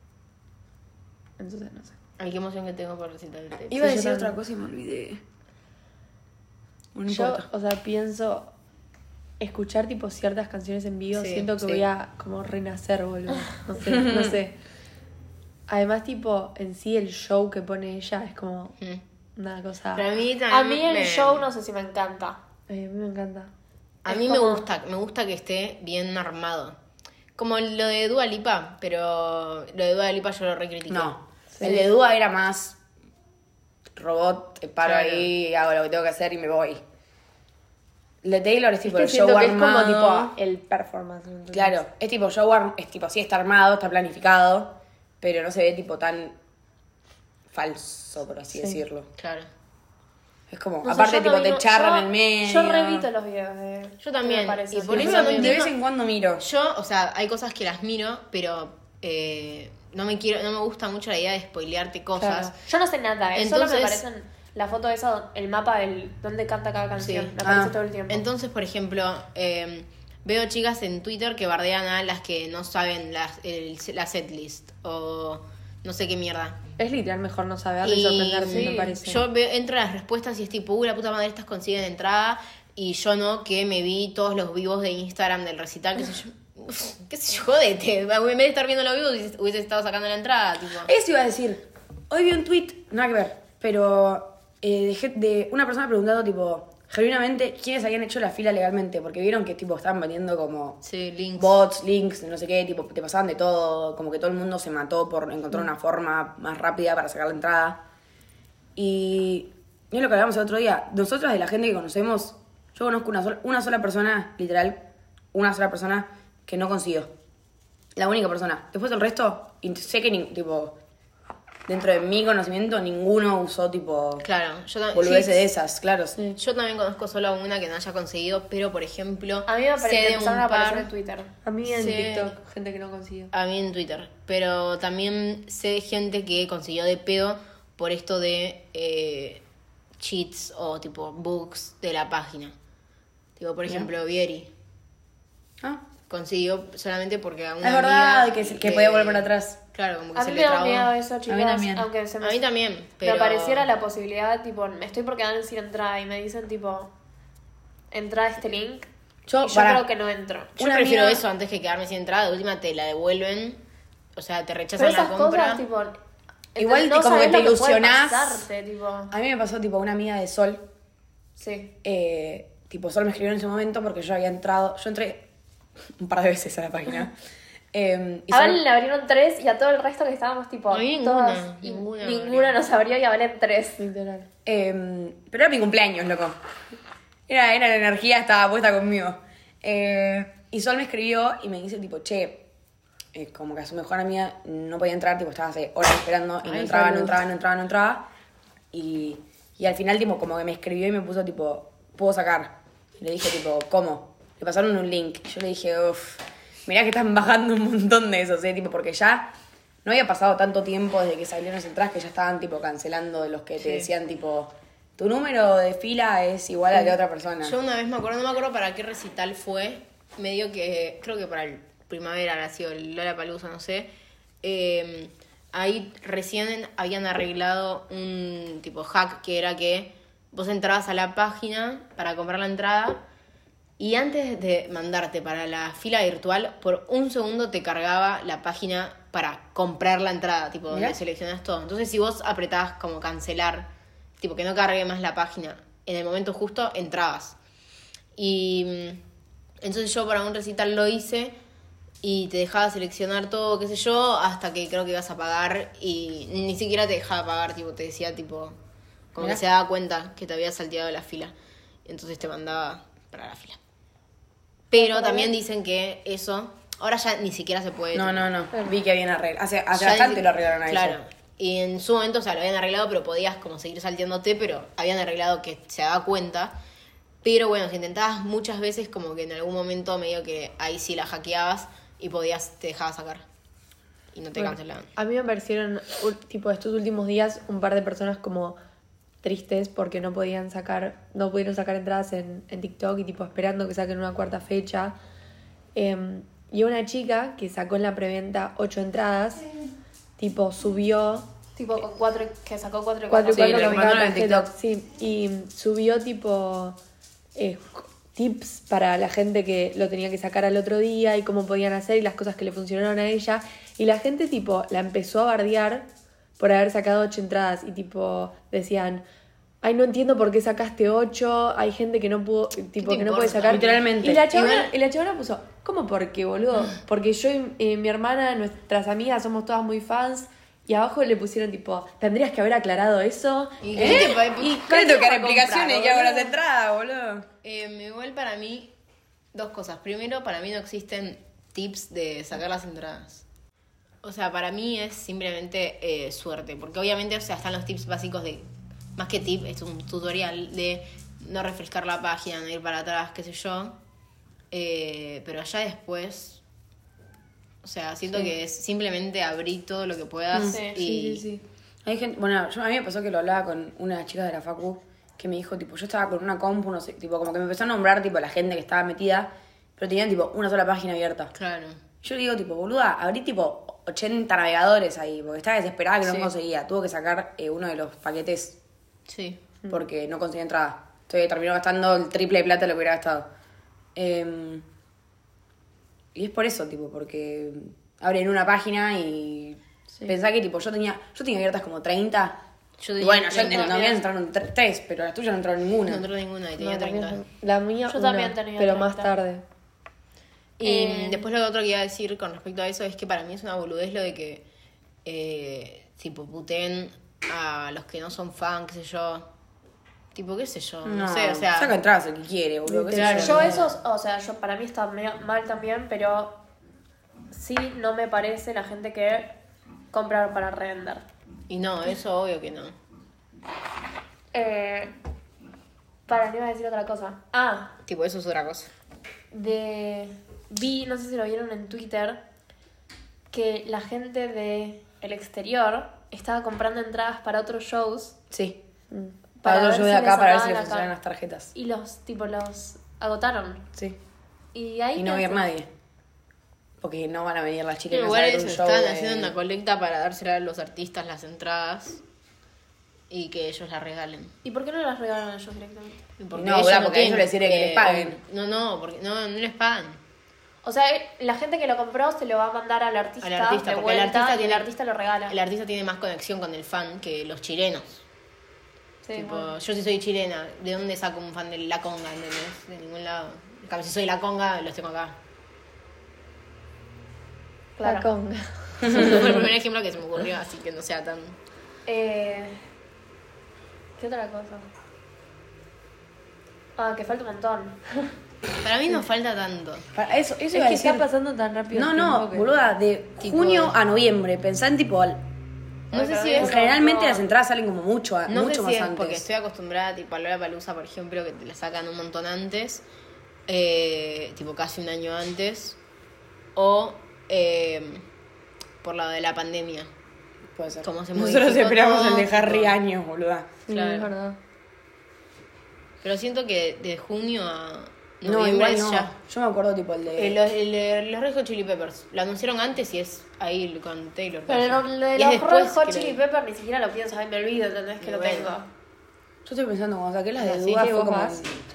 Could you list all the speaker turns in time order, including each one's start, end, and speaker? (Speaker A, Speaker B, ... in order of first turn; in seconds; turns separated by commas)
Speaker A: 1.4-1.9, Speaker B: 2.2-3.9, Speaker C: 3.7-5.2, Speaker A: 3.7-4.4, Speaker C: 6.9-7.5, Speaker A: 7.1-8.5, Speaker A: 9.4-14.5, Speaker B: 11.1-11.8, Speaker C: 13.8-14.4, Speaker A: 15.7-18.8, Speaker A: 19.4-20.0, Speaker B: 19.9-21.5, Speaker D: 20.5-22.4, Speaker A: 22.7-23.5, Speaker B: 24.0-26.8, Speaker D: 24.1-24.6, Speaker B: 27.4-31.7, Speaker C: 30.9-32.8, Speaker C: 34.0-36.8, Speaker B: 34.8-35.3, Speaker C: 38.2-40.4, Speaker A: 38.9-41.8, Speaker C: 41.5-46.4, Speaker C: 47.5-49.1, Speaker B: 49.2-49.5, Speaker C: 50.5-53.1, Speaker D: 50.8-55.6, Speaker B: 54.0-55.8, Speaker C: 54.8-56.4, Speaker B: 56.4-62.5, Speaker A: 62.2-62.5, Speaker D: 62.5-68.2, Speaker B: 63.3-64.0, Speaker B: 67.0-67.3, Speaker C: 67.4-67.7, Speaker B: 68.1-76.6, Speaker A: 76.8-79.2, Speaker B: 77.8-90.9, Speaker D: 78.5-78.8, Speaker C: 90.8-100.8, Speaker B: 100.8-101.6, Speaker C: 101.3-107.8, Speaker C: 108.8-114.8, Speaker C: 115.3-117.1, Speaker C: 117.9-120.8, Speaker C: 121.7-124.2, Speaker B: 124.2-125.5, Speaker C: 124.9-126.2, Speaker B: 126.3-130.9, Speaker D: 129.4-131.3, Speaker A: 131.4-133.3, Speaker B: 131.7-132.3, Speaker B: 133.3-139.4, Speaker B: 140.0-142.5, Speaker B: 143.4-144.5, Speaker B: 146.1-150.9, Speaker C: 147.6-149.6, Speaker D: 150.1-152.5, Speaker C: 151.3-151.9, Speaker B: 152.2-153.7, Speaker D: 153.0-156.9, Speaker D: 157.9-158.9, Speaker C: 159.3-159.8, Speaker D: 159.4-160.6, Speaker C: 160.6-161.2, Speaker B: 160.6-163.6, Speaker B: 164.1-165.6, Speaker D: 164.8-166.0, Speaker D: 166.5-169.1, Speaker C: 166.6-168.4, Speaker C: 169.1-170.7, Speaker D: 171.4-171.7, Speaker C: 171.8-175.2, Speaker C: 176.0-177.1, Speaker C: 177.7-178.6, Speaker D: 178.3-183.8, Speaker B: 180.7-182.6, Speaker A: 183.8-184.2, Speaker C: 184.4-186.4, Speaker C: 187.3-192.5, Speaker C: 193.1-198.1, Speaker B: 196.4-197.2, Speaker C: 198.7-209.3, Speaker C: 209.8-217.6, Speaker B: 213.6-213.9, Speaker B: 217.4-223.9, Speaker B: 224.4-233.0, Speaker B: 233.8-247.3, Speaker C: 240.7-241.0, Speaker B: 248.2-249.0, Speaker B: 249.6-251.3, Speaker B: 252.0-258.6, Speaker B: 259.1-261.3, Speaker B: 261.9-263.6, Speaker B: 264.7-268.3, Speaker D: 264.8-265.3, Speaker C: 267.9-271.0, Speaker B: 269.7-276.6, Speaker B: 277.2-283.2, Speaker B: 284.1-284.9, Speaker A: 284.4-288.6, Speaker A: 289.2-294.9, Speaker A: 295.7-299.4, Speaker A: 300.2-301.3, Speaker D: 301.6-304.0, Speaker A: 303.1-306.8, Speaker B: 303.3-304.5, Speaker A: 307.4-319.0, Speaker A: 319.6-334.0, Speaker B: 322.8-324.7, Speaker C: 323.3-324.3, Speaker B: 333.6-335.0, Speaker C: 333.8-337.2, Speaker A: 334.9-336.3, Speaker B: 337.4-338.7, Speaker B: 339.3-343.2, Speaker B: 344.0-348.4, Speaker B: 349.0-353.8, Speaker B: 354.5-356.4, Speaker B: 357.6-361.2, Speaker C: 360.3-360.6, Speaker D: 360.4-360.8, Speaker A: 360.7-361.4, Speaker C: 361.8-371.3, Speaker B: 371.3-371.8, Speaker C: 372.0-378.6, Speaker B: 376.0-376.3, Speaker B: 379.1-379.4, Speaker C: 379.7-383.3, Speaker C: 383.9-384.6, Speaker C: 386.1-392.4, Speaker B: 392.8-394.0, Speaker C: 393.0-396.1, Speaker D: 393.4-393.8, Speaker B: 395.9-397.2, Speaker A: 396.6-399.4, Speaker D: 397.9-399.1, Speaker B: 400.6-404.4, Speaker D: 400.6-401.3, Speaker B: 405.0-409.3, Speaker B: 410.1-411.8, Speaker C: 410.8-413.7, Speaker A: 412.7-413.0, Speaker B: 412.9-413.7, Speaker D: 413.0-416.4, Speaker D: 417.3-419.4, Speaker D: 419.9-421.0, Speaker B: 421.5-422.7, Speaker D: 424.3-424.9, Speaker D: 426.1-427.7, Speaker B: 427.9-428.7, Speaker D: 429.3-432.2, Speaker D: 433.3-438.2, Speaker C: 438.3-438.6, Speaker A: 438.9-439.2, Speaker D: 439.4-440.9, Speaker C: 439.4-441.5, Speaker D: 441.5-443.7, Speaker D: 444.5-445.5, Speaker C: 444.9-445.7, Speaker C: 446.8-449.3, Speaker B: 447.9-452.0, Speaker B: 453.1-454.3, Speaker D: 454.4-456.0, Speaker B: 456.2-460.0, Speaker C: 456.3-458.2, Speaker D: 460.6-465.4, Speaker B: 463.2-464.7, Speaker B: 465.3-468.0, Speaker D: 469.0-469.5, Speaker B: 469.1-475.2, Speaker D: 477.8-478.1, Speaker A: 477.8-479.4, Speaker B: 478.9-481.4, Speaker C: 478.9-479.2, Speaker D: 481.9-482.6, Speaker D: 484.0-484.7, Speaker D: 486.8-488.1, Speaker B: 488.6-489.9, Speaker C: 489.9-491.1, Speaker A: 490.5-492.5, Speaker C: 491.7-495.2, Speaker B: 493.2-493.8, Speaker B: 495.9-496.6, Speaker D: 495.9-497.3, Speaker C: 496.4-499.2, Speaker B: 498.3-502.8, Speaker B: 503.5-505.8, Speaker B: 506.5-508.0, Speaker B: 508.8-509.9, Speaker C: 510.5-513.5, Speaker B: 510.8-512.8, Speaker A: 513.7-514.4, Speaker B: 513.7-514.1, Speaker B: 516.0-519.1, Speaker C: 518.2-520.4, Speaker B: 520.2-526.2, Speaker D: 524.5-528.7, Speaker B: 528.0-528.5, Speaker C: 529.5-531.6, Speaker B: 530.4-530.9, Speaker A: 530.7-531.4